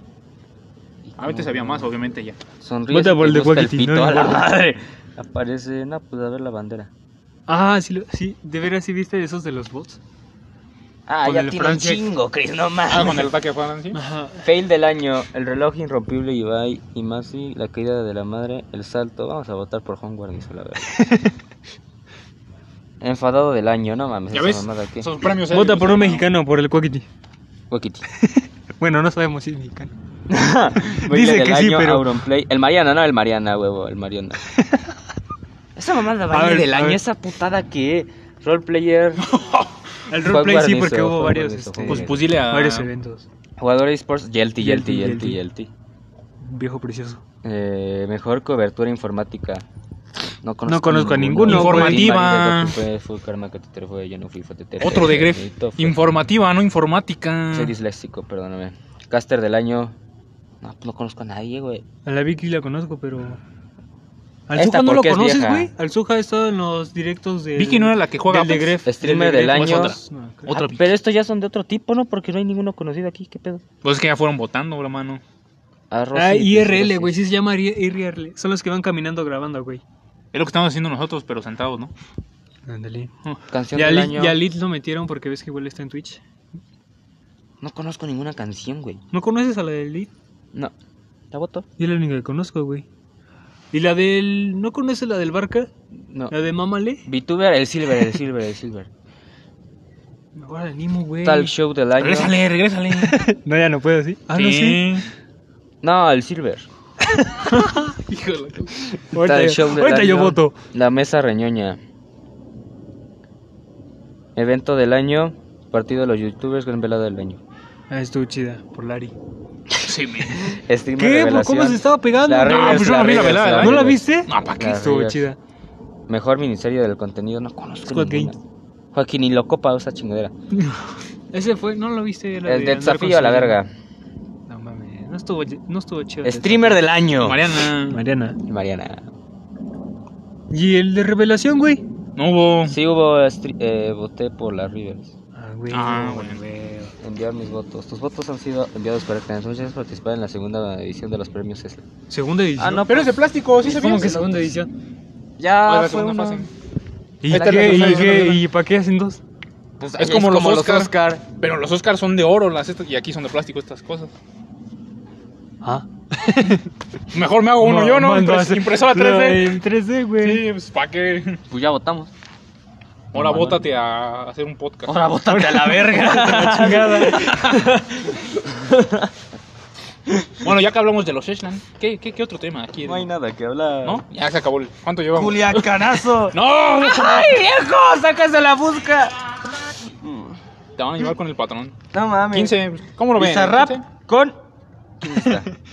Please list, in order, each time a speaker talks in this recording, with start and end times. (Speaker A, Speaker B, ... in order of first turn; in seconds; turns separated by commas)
Speaker A: 1.1-1.9, Speaker B: 1.2-2.4, Speaker A: 2.6-6.9, Speaker C: 2.9-4.5, Speaker C: 7.5-10.0, Speaker A: 11.1-13.4, Speaker C: 11.2-12.1, Speaker B: 12.9-14.0, Speaker C: 13.9-14.5, Speaker A: 14.4-20.9, Speaker C: 20.9-21.3, Speaker A: 23.0-25.1, Speaker B: 24.3-26.3, Speaker C: 25.5-27.1, Speaker A: 27.7-28.0, Speaker C: 28.2-29.9, Speaker A: 30.3-34.4, Speaker C: 30.8-32.2, Speaker C: 34.6-34.8, Speaker A: 35.8-39.2, Speaker C: 36.3-37.0, Speaker B: 39.2-39.8, Speaker C: 40.1-43.3, Speaker A: 40.2-42.3, Speaker B: 41.8-42.9, Speaker A: 43.6-45.7, Speaker C: 44.6-45.4, Speaker C: 46.4-47.2, Speaker A: 47.4-49.6, Speaker A: 50.4-56.0, Speaker C: 50.7-52.1, Speaker B: 51.5-52.8, Speaker B: 54.8-57.8, Speaker A: 57.5-60.0, Speaker A: 60.6-61.9, Speaker C: 62.0-63.4, Speaker C: 64.5-70.5, Speaker A: 64.5-65.7, Speaker B: 67.6-68.9, Speaker A: 68.9-70.0, Speaker B: 69.4-71.0, Speaker A: 70.5-73.6, Speaker B: 73.8-75.2, Speaker A: 75.9-77.2, Speaker C: 76.2-79.8, Speaker B: 80.3-81.9, Speaker C: 82.7-83.1, Speaker A: 83.5-84.4, Speaker C: 83.7-86.2, Speaker A: 87.6-89.0, Speaker C: 89.1-90.1, Speaker A: 91.3-91.7, Speaker C: 91.8-92.8, Speaker C: 93.7-95.7, Speaker A: 95.9-96.4, Speaker C: 96.3-97.0, Speaker A: 97.0-98.9, Speaker C: 100.3-101.5, Speaker A: 101.2-102.3, Speaker B: 102.0-103.2, Speaker C: 103.0-105.0, Speaker B: 104.3-105.1, Speaker A: 105.8-106.7, Speaker C: 107.1-107.9, Speaker B: 108.1-109.0, Speaker C: 109.1-110.5, Speaker A: 109.1-111.8, Speaker A: 114.4-117.4, Speaker C: 117.9-119.2, Speaker B: 119.8-120.6, Speaker A: 120.4-124.1, Speaker C: 121.0-125.4, Speaker B: 122.5-124.9, Speaker A: 124.6-125.3, Speaker A: 126.1-128.4, Speaker C: 127.9-128.3, Speaker A: 128.9-130.3, Speaker C: 131.3-133.6, Speaker A: 132.4-133.7, Speaker C: 134.5-136.8, Speaker A: 136.2-137.6, Speaker B: 137.2-138.0, Speaker C: 137.9-138.4, Speaker A: 138.5-139.1, Speaker C: 140.5-141.8, Speaker B: 142.2-142.8, Speaker A: 142.7-145.1, Speaker C: 145.3-146.9, Speaker B: 145.7-146.4, Speaker A: 147.0-151.8, Speaker C: 152.1-152.9, Speaker A: 152.6-153.2, Speaker B: 152.9-154.3, Speaker C: 153.6-154.7, Speaker A: 153.8-154.5, Speaker A: 155.4-156.5, Speaker B: 155.6-156.5, Speaker C: 157.2-159.2, Speaker B: 157.3-158.4, Speaker A: 157.3-158.1, Speaker A: 159.8-161.2, Speaker B: 160.0-164.2, Speaker C: 165.6-166.7, Speaker B: 167.1-169.6, Speaker C: 167.6-170.5, Speaker B: 170.2-171.4, Speaker A: 171.5-172.1, Speaker B: 173.1-175.0, Speaker A: 173.1-173.7, Speaker A: 174.9-179.1, Speaker C: 175.3-177.6, Speaker A: 180.1-180.5, Speaker B: 180.4-183.1, Speaker A: 182.8-184.0, Speaker B: 183.8-187.4, Speaker A: 185.1-189.2, Speaker A: 190.0-190.4, Speaker B: 190.8-191.8, Speaker A: 191.9-192.6, Speaker B: 192.3-193.9, Speaker A: 193.2-194.4, Speaker A: 195.0-195.5, Speaker C: 195.2-195.5